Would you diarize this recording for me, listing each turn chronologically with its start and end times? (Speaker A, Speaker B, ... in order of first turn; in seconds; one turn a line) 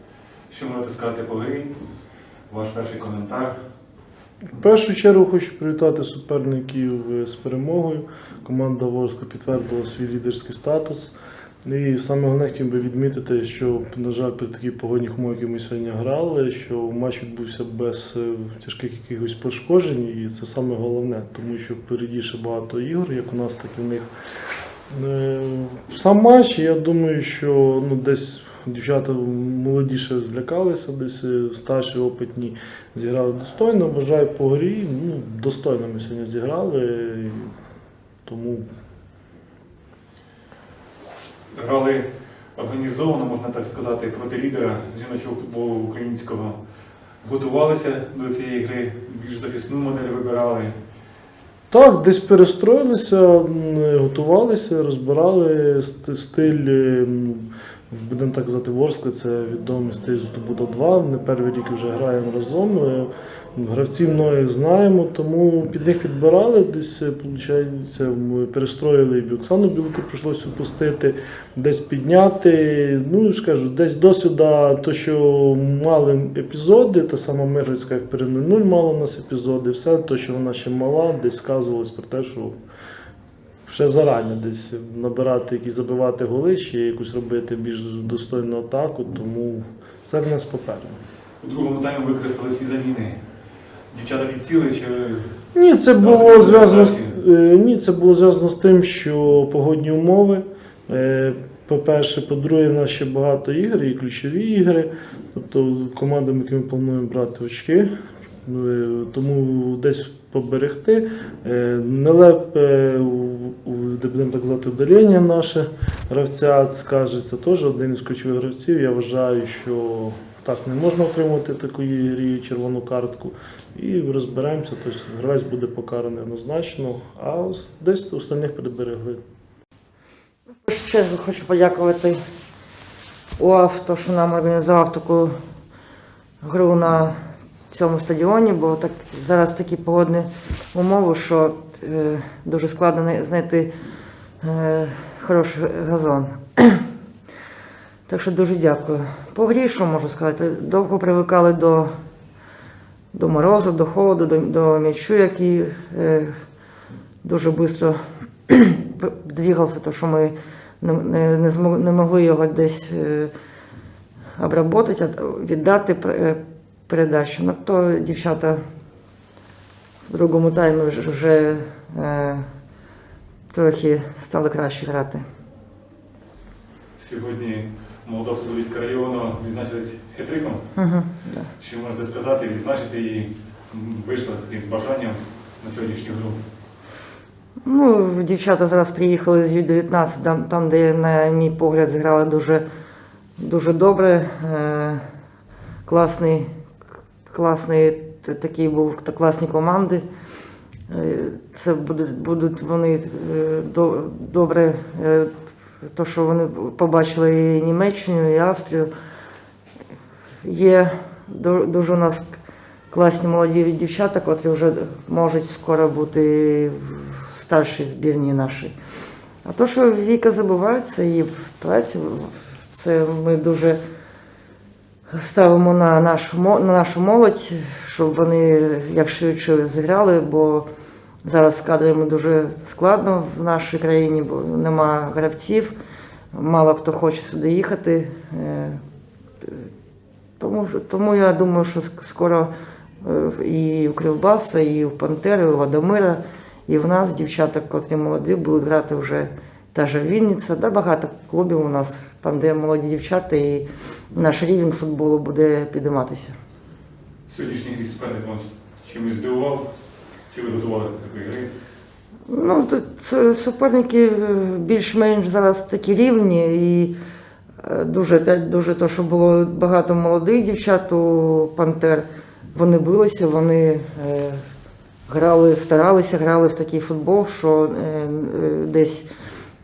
Speaker A: 0.5-1.7
Speaker A: 2.5-3.5
Speaker B: 4.5-24.1
Speaker B: 24.9-37.5
Speaker B: 38.2-38.7
Speaker A: 41.5-46.6
Speaker A: 47.2-50.7
Speaker B: 51.7-82.5
Speaker B: 83.7-91.0
Speaker A: 91.4-93.2
Speaker A: 93.9-95.3
Speaker B: 95.5-107.9
Speaker A: 96.0-97.1
Speaker B: 108.4-129.2
Speaker C: 130.6-132.2
Speaker C: 133.4-135.3
Speaker C: 136.4-137.2
Speaker C: 137.7-143.7
Speaker C: 144.4-146.8
Speaker C: 148.1-151.9
Speaker C: 153.1-156.3
Speaker C: 157.2-163.3
Speaker C: 164.4-168.6
Speaker C: 170.1-172.4
Speaker C: 173.5-175.2
Speaker A: 177.0-180.6
Speaker C: 180.8-181.5
Speaker A: 181.6-186.4
Speaker C: 187.6-192.6
Speaker C: 193.4-195.0
Speaker C: 195.8-196.5
Speaker C: 197.3-200.0
Speaker C: 200.9-208.9
Speaker C: 210.4-212.2
Speaker C: 212.9-218.7
Speaker C: 219.4-223.8
Speaker C: 225.1-230.7
Speaker C: 231.2-235.7
Speaker C: 236.3-238.8
Speaker C: 239.4-239.7
Speaker C: 240.4-256.3
Speaker A: 257.3-259.7
Speaker A: 260.3-261.5
Speaker C: 262.3-266.9
Speaker C: 267.6-274.4
Speaker C: 275.1-279.1